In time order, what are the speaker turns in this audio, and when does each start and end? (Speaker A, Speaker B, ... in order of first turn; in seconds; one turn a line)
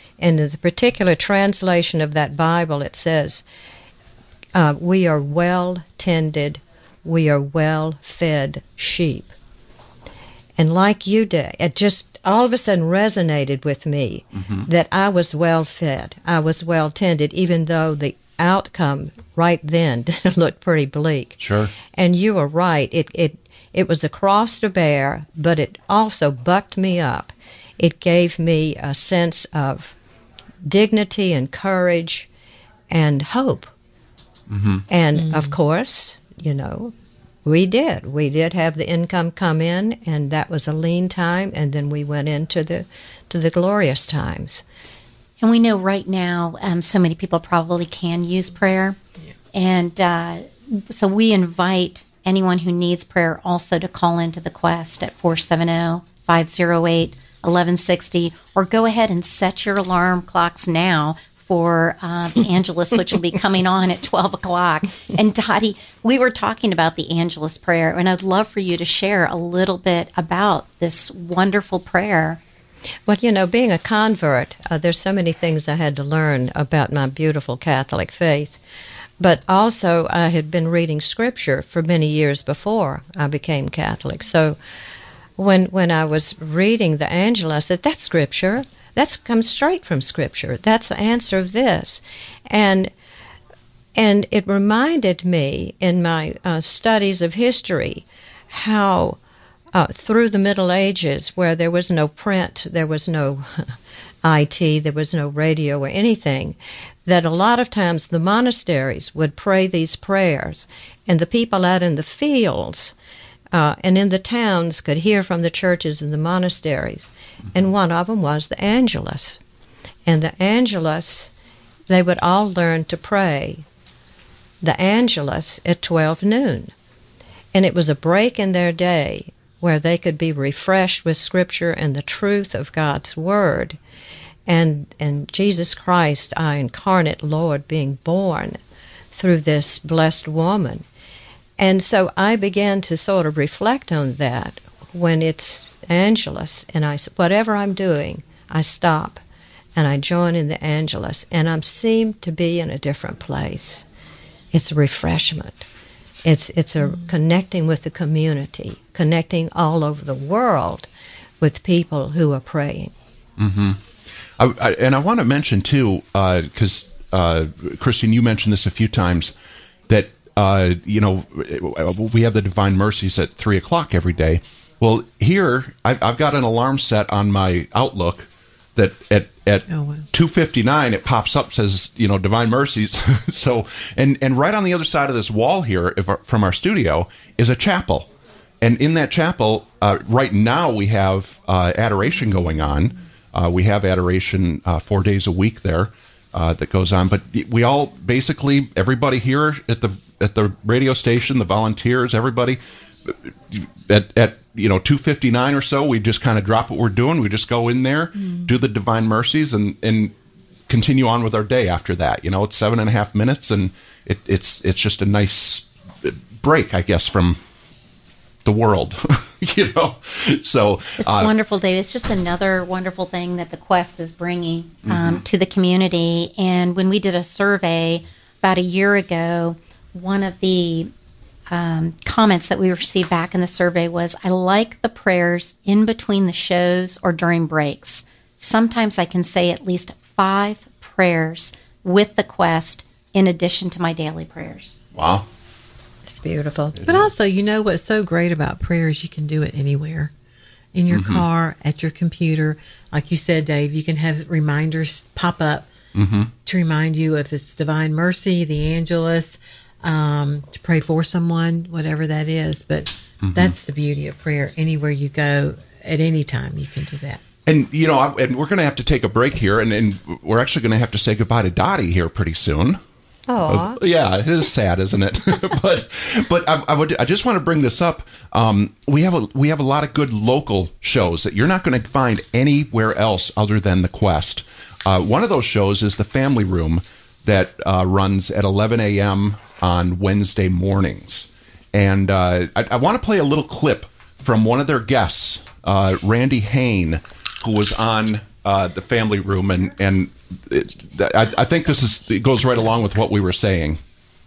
Speaker A: 0.2-3.4
Speaker A: 4.5-9.3
Speaker A: 10.6-29.9
Speaker B: 14.4-14.7
Speaker B: 21.4-21.7
Speaker A: 30.6-32.3
Speaker A: 32.9-33.7
Speaker B: 34.5-34.8
Speaker A: 34.9-36.9
Speaker C: 35.1-35.5
Speaker A: 37.4-44.6
Speaker D: 45.4-49.0
Speaker D: 49.5-72.4
Speaker A: 73.1-78.6
Speaker A: 79.2-84.6
Speaker A: 85.4-92.9
Speaker A: 94.0-99.2
Speaker A: 99.7-112.9
Speaker A: 113.5-119.4
Speaker A: 120.0-121.3
Speaker A: 121.9-123.6
Speaker A: 124.6-126.7
Speaker A: 127.5-133.8
Speaker A: 134.5-138.6
Speaker A: 139.1-140.8
Speaker A: 141.6-149.2
Speaker A: 149.8-153.8
Speaker A: 154.5-155.7
Speaker A: 156.2-160.9
Speaker A: 161.4-162.9
Speaker B: 163.4-163.8
Speaker B: 164.4-169.3
Speaker B: 169.9-188.1
Speaker C: 179.7-180.0
Speaker B: 188.6-210.1
Speaker B: 210.7-217.4
Speaker B: 218.4-221.3
Speaker D: 221.0-230.9
Speaker B: 224.8-225.2
Speaker D: 231.5-244.8
Speaker B: 244.9-245.2
Speaker A: 246.1-246.8
Speaker B: 246.8-247.0
Speaker C: 246.8-250.1
Speaker C: 250.7-255.7
Speaker B: 250.9-251.2
Speaker B: 255.9-256.3
Speaker C: 256.4-267.2
Speaker B: 263.2-263.5
Speaker B: 267.4-272.8
Speaker A: 273.3-273.8
Speaker B: 273.4-303.8